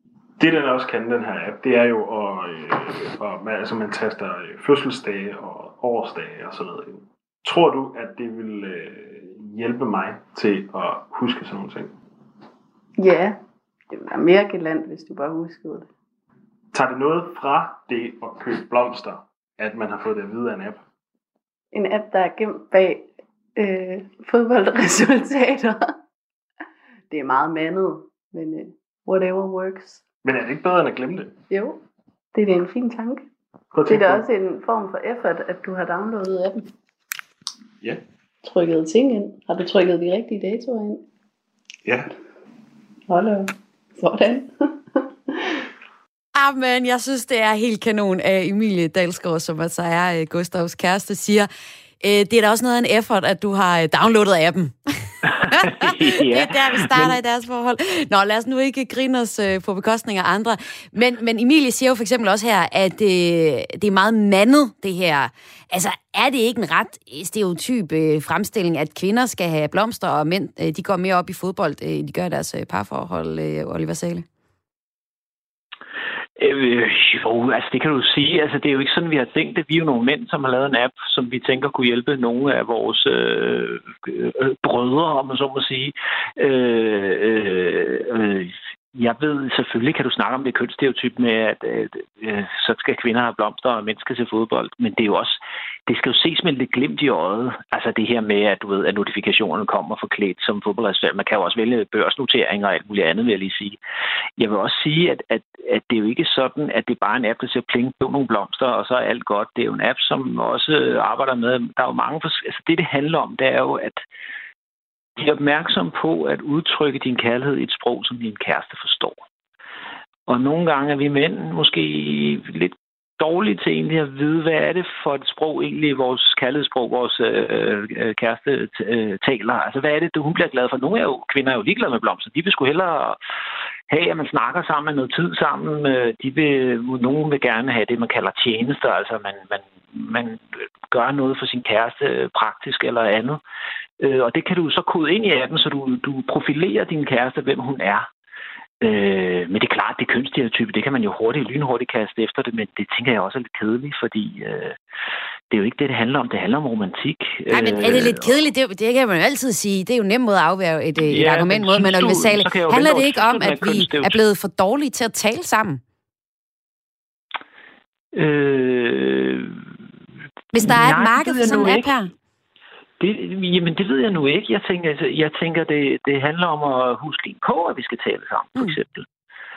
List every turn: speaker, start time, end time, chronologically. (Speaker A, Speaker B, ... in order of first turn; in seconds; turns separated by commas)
Speaker A: 0.4-11.9, Speaker B: 13.0-13.4, Speaker B: 13.9-15.9, Speaker A: 16.7-20.8, Speaker B: 21.7-26.0, Speaker B: 27.1-30.0, Speaker A: 30.2-31.3, Speaker B: 31.5-31.8, Speaker B: 32.3-33.2, Speaker A: 33.7-34.3, Speaker B: 33.9-36.7, Speaker B: 38.4-41.0, Speaker A: 41.8-42.1, Speaker B: 43.1-45.3, Speaker C: 46.3-51.5, Speaker C: 52.0-54.7, Speaker D: 55.2-57.1, Speaker C: 55.5-74.2, Speaker D: 76.4-103.8, Speaker D: 104.4-114.0, Speaker D: 115.2-119.2, Speaker D: 120.3-133.2, Speaker D: 133.9-143.4, Speaker D: 144.0-148.1, Speaker D: 148.8-154.8, Speaker D: 155.5-158.4, Speaker C: 157.5-165.8, Speaker D: 161.1-164.2, Speaker D: 168.1-169.6, Speaker C: 170.5-172.1, Speaker D: 170.5-172.0, Speaker D: 173.0-179.1